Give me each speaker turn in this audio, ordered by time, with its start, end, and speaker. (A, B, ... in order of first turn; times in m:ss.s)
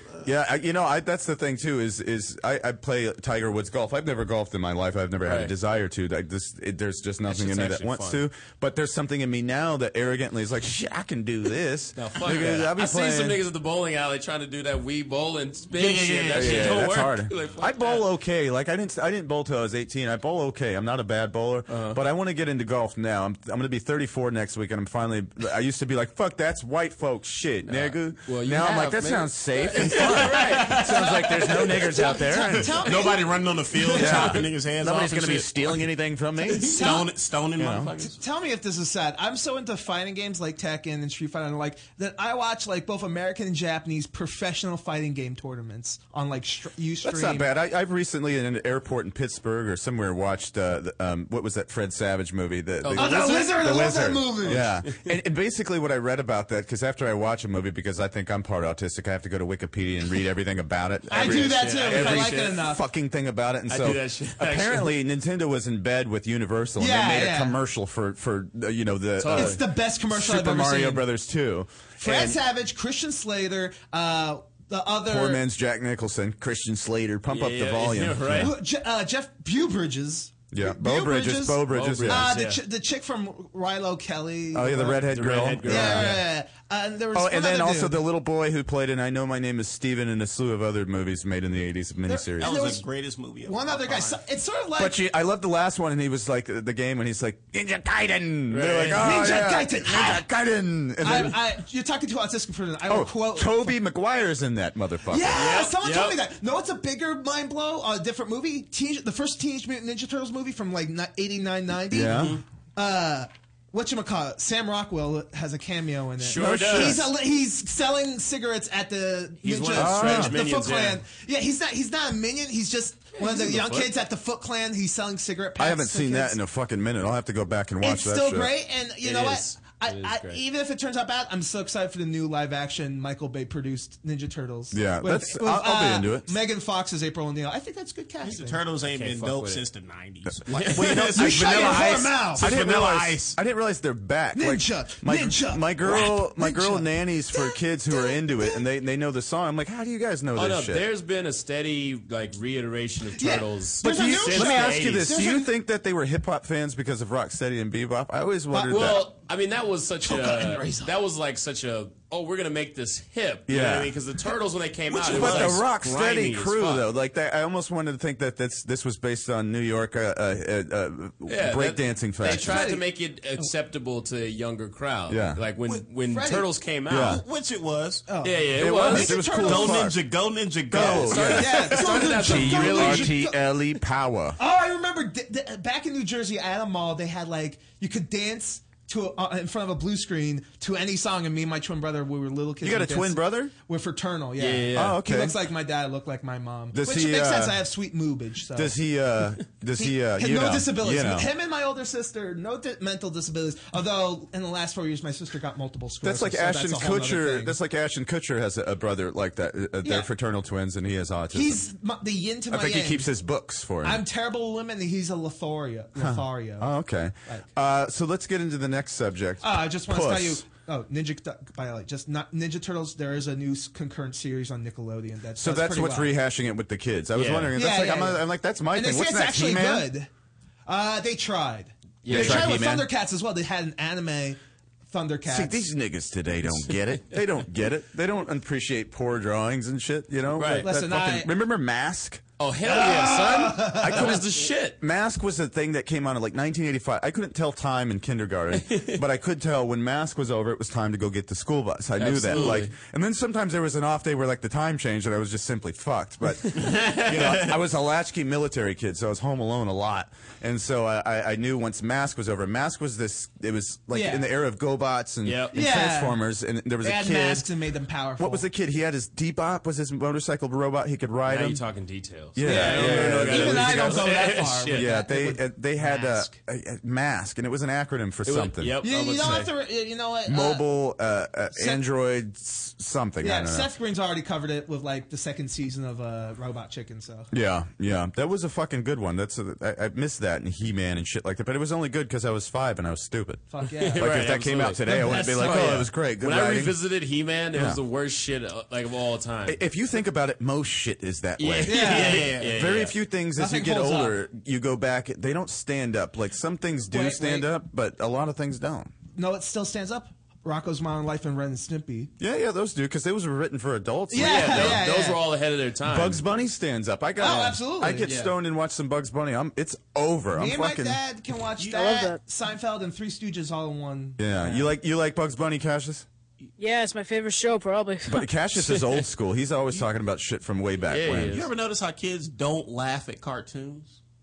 0:00.2-0:13.4 A
0:05.2-0:05.5 B
0:07.3-0:08.2 B
0:12.0-0:18.1 B
0:15.7-0:17.0 C
0:16.3-0:32.9 A
0:21.7-0:22.0 B
0:27.6-0:31.9 B
0:30.4-0:34.4 D
0:32.6-0:35.9 C
0:33.9-0:36.8 A
0:36.5-0:38.2 C
0:36.6-0:37.2 D
0:37.6-0:37.9 A
0:38.0-0:47.5 D
0:47.0-1:12.4 A
0:52.8-0:53.6 B
0:52.9-0:54.6 D
0:54.5-0:55.1 B
1:01.1-1:02.6 B
1:01.1-1:02.8 D
1:03.7-1:05.0 B
1:06.8-1:07.6 D
1:09.2-1:09.6 B
1:09.3-1:11.0 D
1:12.0-1:15.4 D
1:15.0-1:18.5 A
1:17.3-1:18.5 B
1:18.3-1:25.1 D
1:20.5-1:22.3 A
1:21.7-1:22.6 B
1:24.5-1:26.2 A
1:25.1-1:26.3 B
1:25.6-1:28.0 D
1:27.1-1:32.5 A
1:32.1-1:32.9 D
1:32.4-1:34.2 C
1:33.4-1:35.0 D
1:34.8-1:41.4 A
1:38.5-1:39.1 B
1:39.0-1:40.2 D
1:41.0-1:43.7 D
1:42.9-1:45.5 A
1:45.1-2:06.4 D
1:45.3-1:46.2 B
1:51.9-1:52.4 A
1:56.2-1:57.1 B
1:56.3-1:57.1 A
1:59.4-2:01.0 B
1:59.7-2:00.4 A
2:03.2-2:03.9 B
2:05.6-2:08.5 A
2:07.8-2:18.6 D
2:09.0-2:10.4 B
2:14.7-2:16.3 A
2:18.2-2:23.4 C
2:18.8-2:19.6 B
2:20.5-2:30.8 A
2:20.5-2:20.9 B
2:21.1-2:22.5 D
2:24.3-2:28.6 D
2:30.3-2:35.2 B
2:33.2-2:35.5 D
2:33.8-2:39.1 A
2:38.5-2:39.1 D
2:38.7-2:46.9 B
2:40.0-2:40.9 D
2:43.5-2:44.0 A
2:44.9-2:45.6 C
2:45.0-2:52.7 A
2:51.2-2:57.2 B
2:52.2-2:52.8 D
2:55.1-2:55.4 A
2:55.7-2:56.5 D
2:56.9-2:57.2 A
2:56.9-2:58.1 C
2:58.1-2:59.8 D
2:58.2-2:59.2 B
2:58.6-3:00.1 A
2:58.9-3:02.0 C
3:00.7-3:04.4 A
3:00.8-3:03.4 D
3:00.8-3:03.2 B
3:04.4-3:18.8 D
3:12.6-3:13.5 A
3:14.4-3:15.0 B
3:14.7-3:15.4 A
3:16.7-3:17.6 A
3:18.5-3:21.3 A
3:19.8-3:27.6 D
3:26.0-3:31.6 A
3:29.8-3:30.1 D
3:31.3-3:33.1 D
3:32.5-3:34.0 A
3:33.8-3:36.7 D
3:36.0-3:40.4 A
3:39.4-3:46.1 D
3:45.4-3:49.9 A
3:47.1-3:47.5 B
3:47.5-3:50.1 D
3:50.7-3:55.6 D
3:52.0-3:52.6 B
3:52.1-3:52.9 A
3:55.3-4:02.2 A
4:00.3-4:00.7 B
4:00.6-4:01.3 D
4:02.4-4:04.8 B
4:02.6-4:04.2 D
4:03.7-4:27.5 A
4:08.6-4:09.0 B
4:12.0-4:12.7 B
4:16.6-4:17.3 C
4:23.9-4:24.3 D
4:25.2-4:25.5 B
4:25.5-4:26.2 D
4:26.8-4:28.5 D
4:28.2-4:31.6 A
4:31.2-4:34.9 B
4:32.3-4:34.1 A
4:32.4-4:36.3 D
4:34.7-4:38.8 A
4:38.2-4:39.5 B
4:38.8-4:40.6 D
4:40.3-4:43.7 A
4:41.5-4:41.8 D
4:43.2-4:47.3 D
4:47.3-4:56.8 A
4:53.5-4:54.1 D
4:53.7-4:59.6 B
4:54.8-4:55.8 D
4:57.5-4:57.8 A
4:59.4-5:08.9 A
5:01.4-5:03.0 B
5:01.6-5:02.3 D
5:01.9-5:02.7 C
5:03.4-5:04.2 D
5:06.9-5:07.5 D
5:09.1-5:12.1 D
5:12.2-5:14.9 A
5:14.1-5:15.2 D
5:14.2-5:16.2 B
5:15.8-5:21.0 A
5:17.2-5:18.1 D
5:18.0-5:18.3 B
5:20.3-5:24.7 D
5:21.7-5:22.2 E
5:24.2-5:26.0 A
5:26.6-5:28.2 E
5:28.1-5:31.4 A
5:28.6-5:29.0 B
5:30.9-5:31.5 B
5:31.1-5:34.0 C